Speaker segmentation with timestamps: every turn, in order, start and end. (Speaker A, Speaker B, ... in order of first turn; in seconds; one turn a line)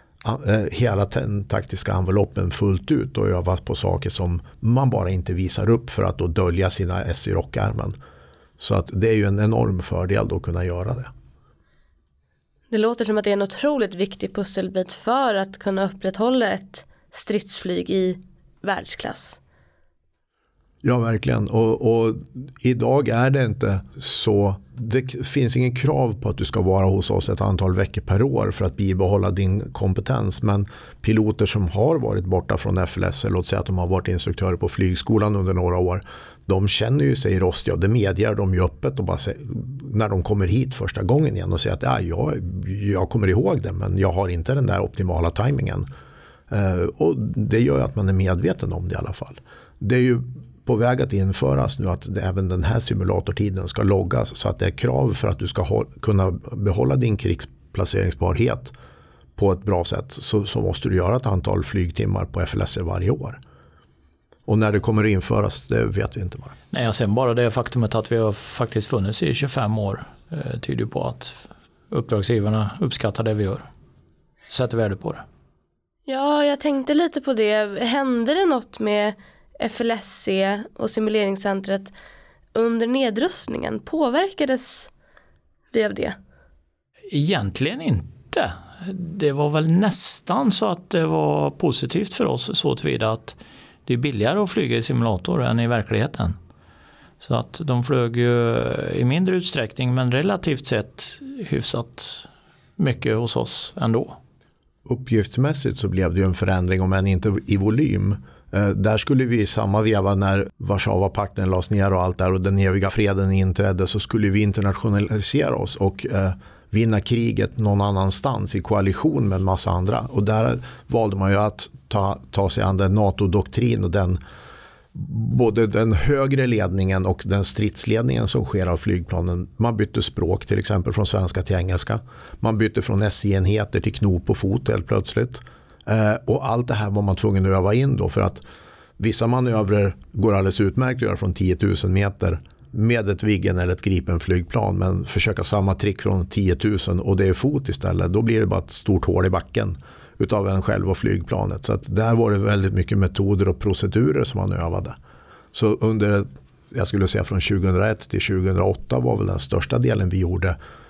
Speaker A: 0.2-8.0
Speaker A: 8.6-11.1
Speaker B: 12.7-19.4
Speaker A: 20.8-45.9
Speaker A: 46.5-58.7
Speaker A: 59.4-63.4
Speaker A: 64.5-66.5
Speaker C: 66.7-73.7
Speaker C: 74.5-75.2
Speaker B: 76.1-81.9
Speaker B: 82.5-84.9
Speaker B: 85.7-86.2
Speaker C: 87.1-96.4
Speaker C: 97.2-104.2
Speaker A: 104.8-124.2
Speaker A: 124.9-138.4
Speaker A: 139.0-154.9
Speaker A: 155.5-160.6